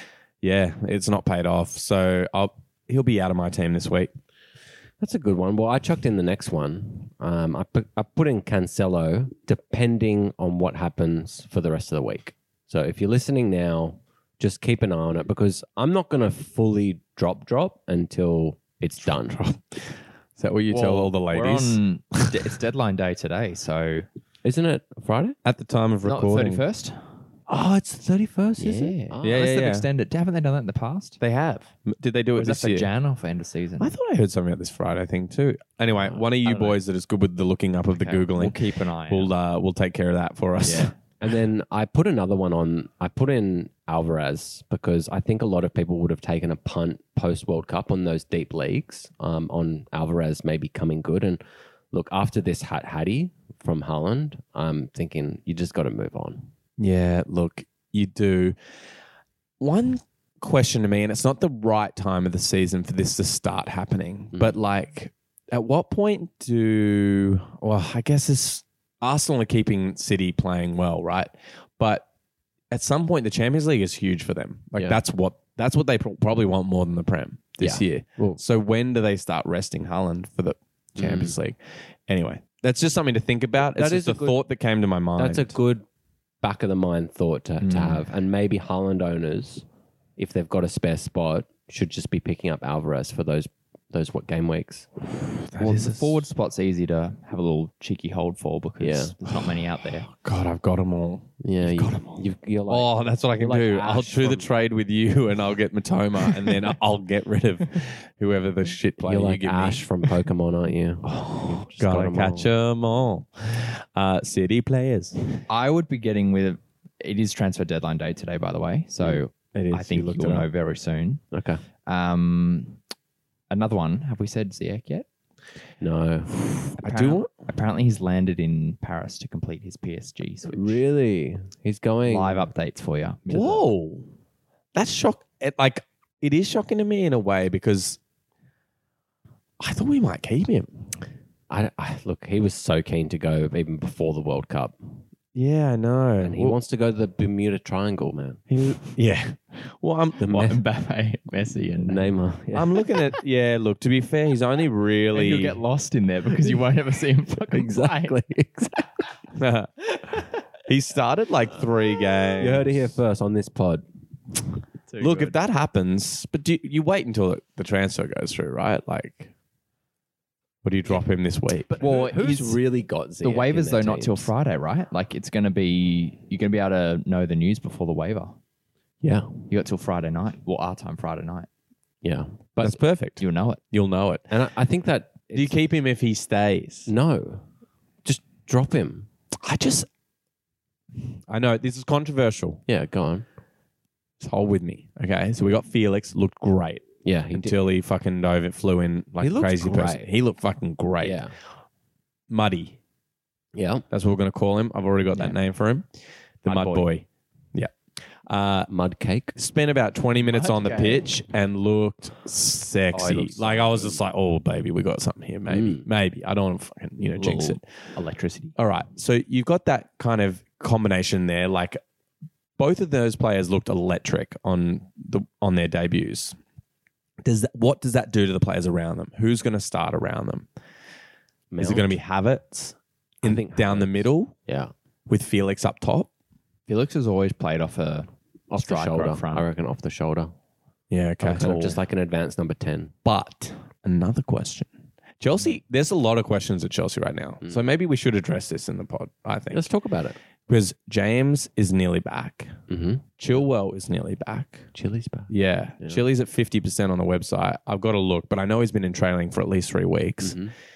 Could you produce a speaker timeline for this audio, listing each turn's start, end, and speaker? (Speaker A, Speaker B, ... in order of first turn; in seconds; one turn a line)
Speaker A: 0.4-4.1
Speaker B: 5.0-19.5
Speaker A: 19.4-19.8
Speaker A: 20.4-21.8
Speaker C: 20.7-24.1
Speaker B: 24.4-25.4
Speaker A: 25.4-26.6
Speaker C: 26.0-27.1
Speaker B: 27.5-29.3
Speaker C: 28.6-31.2
Speaker A: 29.2-29.9
Speaker A: 31.2-32.9
Speaker C: 32.3-33.9
Speaker A: 33.8-40.9
Speaker C: 35.9-36.8
Speaker C: 37.9-39.3
Speaker B: 40.6-51.4
Speaker B: 51.9-56.5
Speaker A: 56.8-58.5
Speaker A: 59.6-72.0
Speaker B: 64.3-64.6
Speaker A: 72.7-85.6
Speaker B: 77.6-78.4
Speaker B: 81.0-81.3
Speaker B: 83.6-84.4
Speaker B: 85.2-85.8
Speaker B: 86.4-89.7
Speaker C: 87.6-88.0
Speaker B: 90.2-95.1
Speaker A: 95.5-96.2
Speaker C: 95.6-100.1
Speaker B: 98.8-99.1
Speaker A: 99.3-110.1
Speaker B: 101.4-104.5
Speaker B: 109.0-112.5
Speaker A: 111.0-115.1
Speaker C: 115.5-121.2
Speaker B: 119.0-119.2
Speaker A: 119.5-120.5
Speaker B: 121.3-121.6
Speaker C: 121.8-122.8
Speaker C: 123.5-125.1
Speaker B: 125.8-126.4
Speaker A: 126.8-127.3
Speaker C: 126.8-130.8
Speaker B: 130.5-132.5
Speaker C: 132.0-133.7
Speaker A: 133.3-134.1
Speaker A: 134.7-138.0
Speaker A: 139.6-140.9
Speaker B: 141.5-145.0
Speaker A: 145.3-146.6
Speaker B: 146.2-148.4
Speaker A: 148.5-150.6
Speaker B: 150.2-150.6
Speaker C: 150.3-152.1
Speaker B: 151.8-153.1
Speaker A: 152.5-155.6
Speaker C: 155.1-158.2
Speaker B: 156.4-156.6
Speaker B: 157.5-159.1
Speaker A: 159.3-163.0
Speaker B: 162.4-163.8
Speaker C: 164.9-165.3
Speaker A: 165.0-169.3
Speaker A: 170.6-171.8
Speaker B: 171.7-174.3
Speaker C: 171.8-172.6
Speaker C: 173.2-178.3
Speaker B: 179.0-179.3
Speaker C: 179.5-181.5
Speaker B: 182.0-182.8
Speaker A: 182.6-184.3
Speaker C: 183.2-183.6
Speaker B: 184.3-185.6
Speaker A: 185.3-186.9
Speaker B: 186.9-187.4
Speaker B: 188.0-189.1
Speaker A: 189.4-189.9
Speaker A: 191.3-192.6
Speaker B: 192.7-193.2
Speaker A: 194.2-201.2
Speaker B: 197.0-197.6
Speaker B: 199.2-200.1
Speaker B: 201.0-201.3
Speaker A: 202.3-202.8
Speaker B: 203.5-203.8
Speaker A: 203.9-207.7
Speaker C: 205.1-205.4
Speaker C: 206.4-206.9
Speaker A: 208.2-208.7
Speaker B: 208.7-209.3
Speaker A: 209.3-217.6
Speaker C: 210.3-211.0
Speaker C: 212.9-214.0
Speaker B: 215.5-215.8
Speaker C: 217.2-218.5
Speaker A: 218.6-221.8
Speaker A: 222.6-226.4
Speaker A: 227.2-230.5
Speaker B: 231.5-232.0
Speaker A: 231.6-234.3
Speaker B: 233.2-234.7
Speaker A: 235.1-236.1
Speaker C: 236.7-239.4
Speaker B: 238.5-240.3
Speaker A: 240.9-241.6
Speaker C: 241.2-241.8
Speaker B: 241.3-242.9
Speaker A: 243.0-244.7
Speaker A: 245.2-249.7
Speaker B: 249.5-250.2
Speaker A: 250.5-252.6
Speaker B: 252.7-253.4
Speaker A: 253.2-254.7
Speaker B: 254.7-256.0
Speaker A: 255.3-260.4
Speaker B: 260.2-260.5